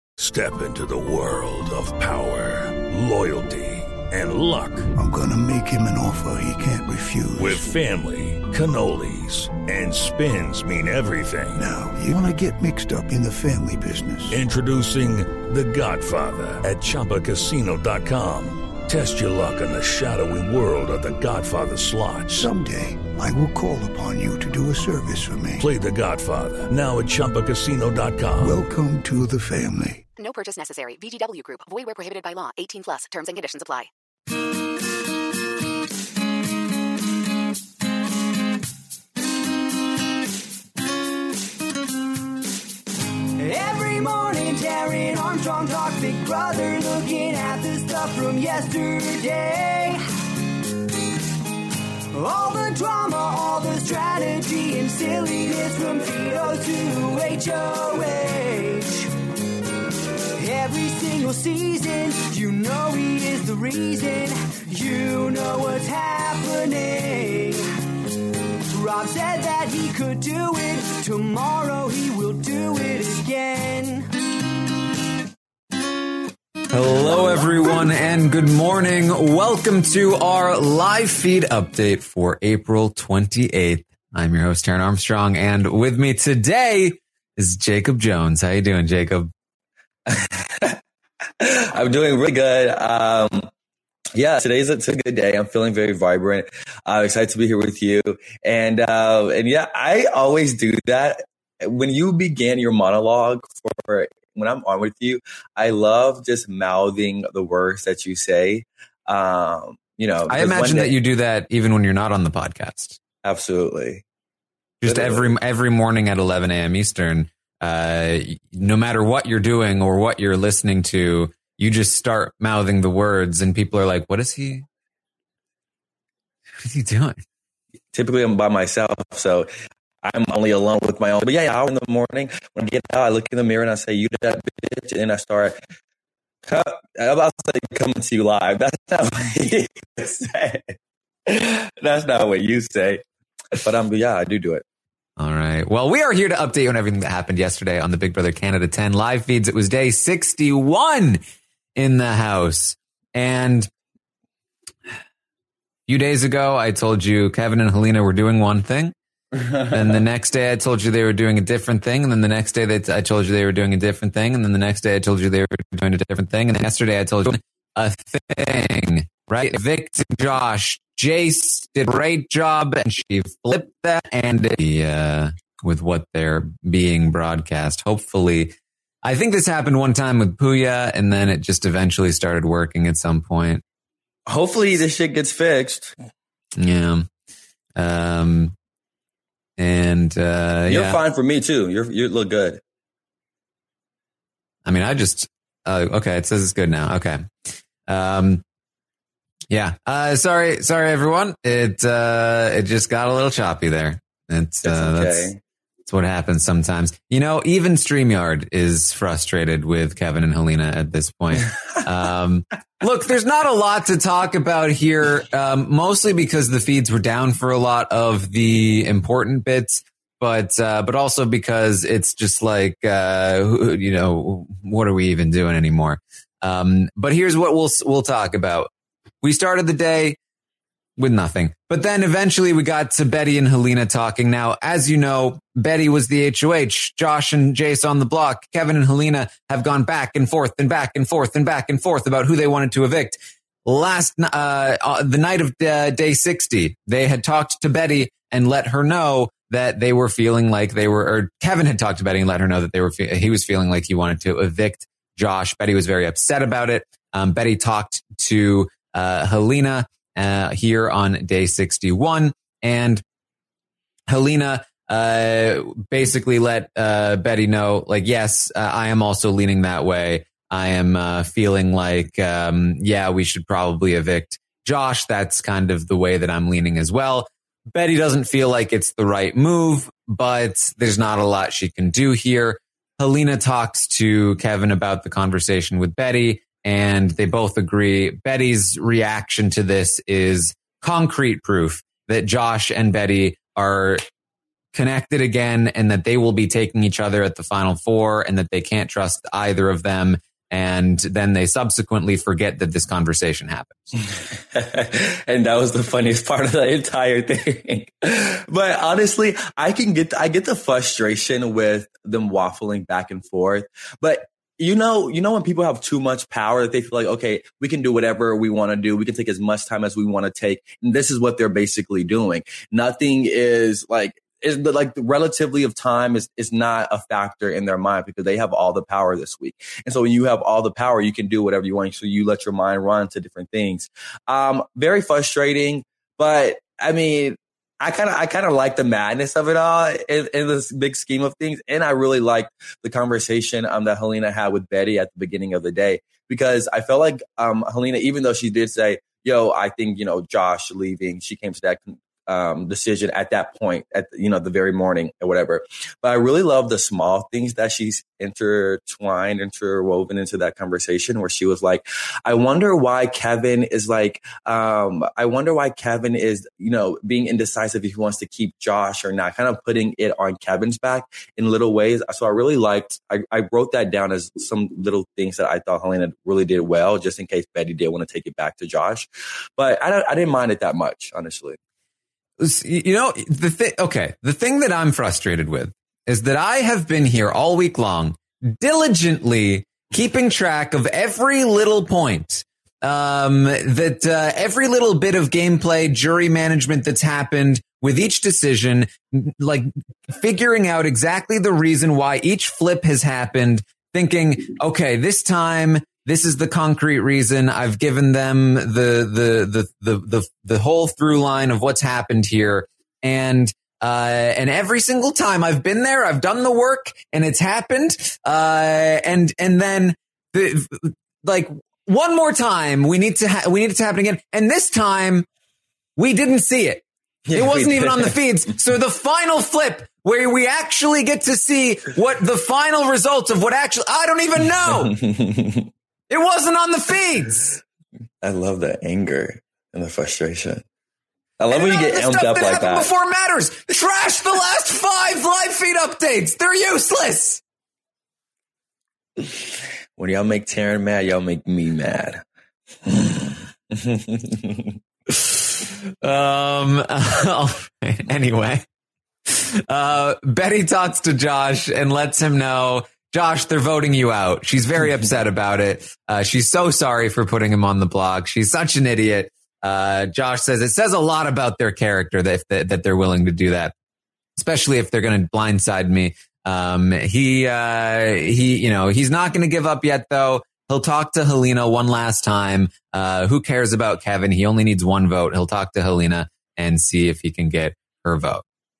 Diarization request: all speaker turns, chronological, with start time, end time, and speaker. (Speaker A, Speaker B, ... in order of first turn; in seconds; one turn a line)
Speaker A: 0.2-4.9
Speaker B: 4.9-7.6
Speaker A: 7.4-11.6
Speaker B: 11.6-14.4
Speaker A: 14.3-22.5
Speaker B: 22.3-25.7
Speaker A: 25.6-28.6
Speaker B: 28.4-30.0
Speaker C: 30.2-33.9
Speaker D: 43.4-50.0
Speaker D: 52.1-59.1
Speaker D: 60.4-67.6
Speaker D: 68.7-74.1
Speaker E: 76.7-89.3
Speaker F: 90.1-90.8
Speaker F: 91.4-93.5
Speaker F: 94.1-110.9
Speaker E: 110.3-113.0
Speaker F: 113.2-114.0
Speaker E: 114.8-124.6
Speaker F: 114.8-115.3
Speaker E: 126.6-127.2
Speaker F: 127.9-129.5
Speaker F: 130.0-135.6
Speaker F: 136.4-140.7
Speaker F: 141.2-143.0
Speaker F: 143.5-144.6
Speaker E: 145.2-151.2
Speaker E: 151.8-153.7
Speaker E: 155.9-158.9
Speaker F: 159.3-159.7
Speaker E: 159.7-183.6
Speaker F: 184.3-185.9
Speaker E: 186.6-187.1
Speaker E: 187.8-188.5
Speaker E: 189.6-191.0
Speaker F: 190.7-192.6
Speaker E: 194.6-197.2
Speaker E: 197.9-198.4
Speaker E: 199.5-205.3
Speaker F: 204.6-205.4
Speaker E: 205.9-228.7
Speaker E: 229.2-230.2
Speaker E: 231.0-263.0
Speaker E: 264.1-294.0
Speaker E: 294.7-303.9
Speaker F: 304.5-381.6
Speaker E: 382.4-425.2
Speaker E: 426.0-434.9
Speaker F: 427.3-428.1
Speaker F: 434.6-435.7
Speaker E: 436.1-437.6
Speaker F: 438.2-440.6
Speaker F: 441.4-442.9
Speaker E: 441.5-447.4
Speaker F: 449.2-449.4
Speaker F: 450.0-452.2
Speaker F: 452.8-454.7
Speaker E: 455.1-458.6
Speaker E: 459.3-473.7
Speaker E: 474.4-488.4